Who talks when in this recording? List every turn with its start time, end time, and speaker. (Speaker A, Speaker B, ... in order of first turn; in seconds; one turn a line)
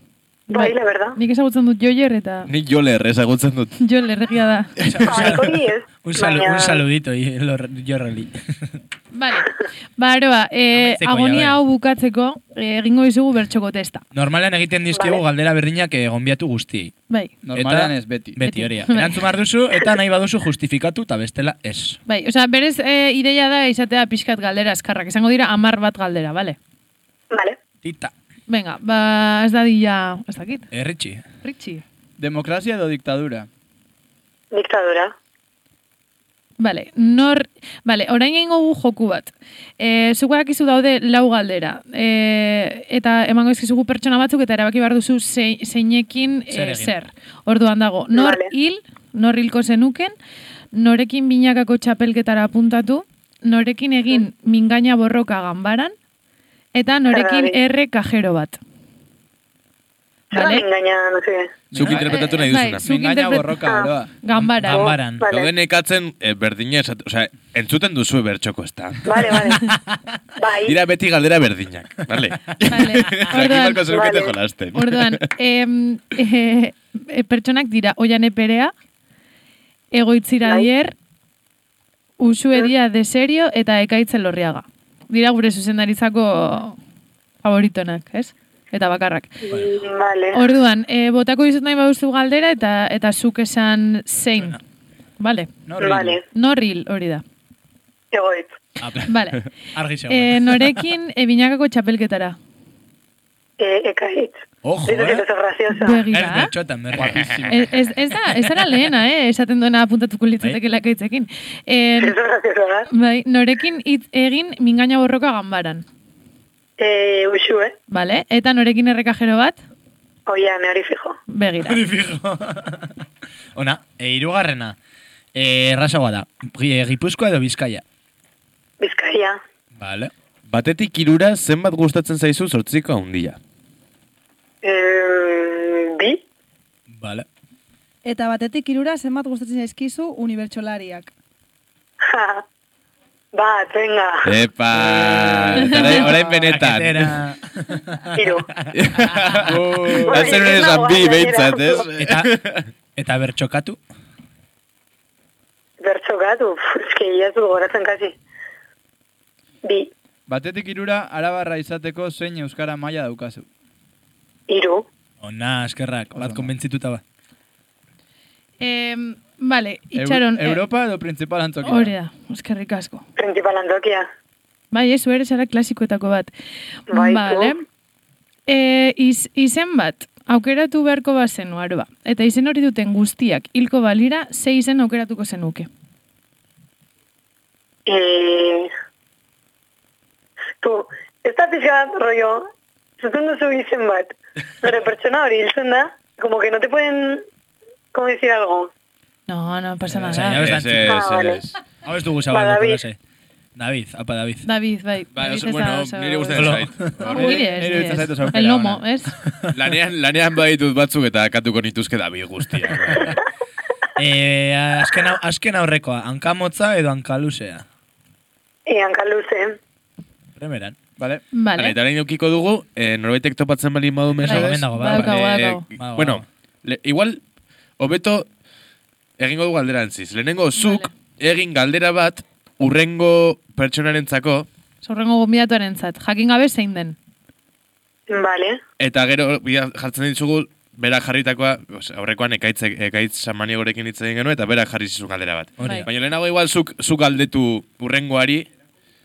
Speaker A: 0.5-1.2
Speaker B: 0.5-2.5
Speaker C: 2.5-3.7
Speaker B: 3.8-4.7
Speaker C: 4.8-5.2
Speaker D: 4.8-8.3
Speaker A: 5.0-6.8
Speaker B: 9.1-14.0
Speaker D: 10.7-11.6
Speaker D: 14.1-16.9
Speaker A: 14.9-15.2
Speaker E: 17.4-18.4
Speaker D: 17.5-22.0
Speaker B: 18.4-19.2
Speaker B: 22.1-26.6
Speaker A: 27.3-27.6
Speaker D: 27.8-28.1
Speaker B: 28.5-30.7
Speaker D: 30.7-31.2
Speaker B: 31.4-31.8
Speaker E: 32.2-33.5
Speaker A: 34.5-35.1
Speaker B: 36.6-50.1
Speaker D: 46.5-46.9
Speaker A: 48.1-48.5
Speaker B: 50.7-55.9
Speaker B: 56.7-58.6
Speaker A: 57.1-57.6
Speaker A: 60.3-61.5
Speaker B: 60.3-60.6
Speaker E: 61.7-64.1
Speaker C: 61.7-62.8
Speaker B: 62.0-63.7
Speaker A: 63.6-63.9
Speaker B: 64.2-65.0
Speaker D: 64.3-65.2
Speaker A: 64.7-65.5
Speaker C: 65.2-69.2
Speaker A: 69.0-69.7
Speaker D: 69.6-70.0
Speaker A: 70.4-70.8
Speaker C: 70.7-75.2
Speaker B: 72.7-73.9
Speaker A: 73.9-74.4
Speaker B: 74.7-78.7
Speaker B: 79.9-80.9
Speaker B: 82.2-86.8
Speaker B: 87.4-89.5
Speaker A: 89.5-90.4
Speaker B: 90.3-94.6
Speaker B: 95.2-95.5
Speaker E: 95.7-96.2
Speaker A: 95.8-96.2
Speaker B: 96.3-97.2
Speaker A: 98.1-98.6
Speaker D: 98.8-100.8
Speaker B: 99.1-99.4
Speaker B: 100.1-102.4
Speaker A: 103.6-106.0
Speaker D: 104.6-105.2
Speaker B: 105.7-106.5
Speaker D: 106.1-107.4
Speaker E: 106.9-107.7
Speaker C: 107.0-107.4
Speaker B: 107.5-112.1
Speaker A: 112.0-112.9
Speaker B: 112.9-115.8
Speaker A: 116.8-117.7
Speaker B: 117.9-119.6
Speaker A: 120.3-121.2
Speaker B: 121.3-121.8
Speaker D: 121.6-122.9
Speaker D: 123.5-124.7
Speaker D: 125.3-127.8
Speaker A: 128.8-129.4
Speaker D: 129.8-130.1
Speaker C: 130.5-133.4
Speaker A: 134.6-136.2
Speaker D: 137.0-137.2
Speaker F: 138.0-141.1
Speaker A: 142.0-142.4
Speaker A: 143.3-144.3
Speaker C: 144.2-147.2
Speaker E: 144.8-146.1
Speaker D: 145.2-149.4
Speaker A: 148.1-148.5
Speaker C: 148.7-152.7
Speaker E: 149.4-150.4
Speaker A: 150.1-151.8
Speaker D: 151.9-152.3
Speaker D: 152.9-153.8
Speaker A: 155.8-158.1
Speaker A: 159.6-159.9
Speaker E: 160.3-163.4
Speaker A: 164.5-164.8
Speaker D: 165.2-167.0
Speaker E: 166.2-166.5
Speaker B: 168.6-170.6
Speaker E: 169.9-171.9
Speaker B: 171.6-173.0
Speaker A: 173.2-174.1
Speaker B: 174.7-176.3
Speaker B: 176.9-177.6
Speaker A: 176.9-177.6
Speaker B: 178.5-185.7
Speaker A: 187.8-188.7
Speaker A: 190.6-192.5
Speaker A: 193.0-197.2
Speaker A: 197.9-198.7
Speaker B: 199.3-200.5
Speaker D: 200.0-200.9
Speaker C: 200.2-201.6
Speaker A: 200.8-201.4
Speaker D: 201.8-203.0
Speaker A: 202.2-202.8
Speaker D: 203.6-204.4
Speaker B: 204.4-209.2
Speaker C: 205.1-207.3
Speaker D: 206.3-206.9
Speaker E: 207.0-208.8
Speaker C: 209.5-213.2
Speaker D: 213.9-217.6
Speaker A: 218.7-219.6
Speaker D: 220.4-220.8
Speaker E: 221.0-221.2
Speaker B: 221.3-221.8
Speaker C: 221.6-227.2
Speaker B: 224.2-225.6
Speaker D: 224.3-225.2
Speaker E: 224.3-224.9
Speaker D: 225.8-226.2
Speaker C: 227.8-228.2
Speaker C: 229.2-234.4
Speaker B: 230.6-230.9
Speaker B: 234.8-236.9
Speaker A: 238.1-238.6
Speaker C: 238.8-248.5
Speaker D: 245.6-245.9
Speaker B: 245.6-245.9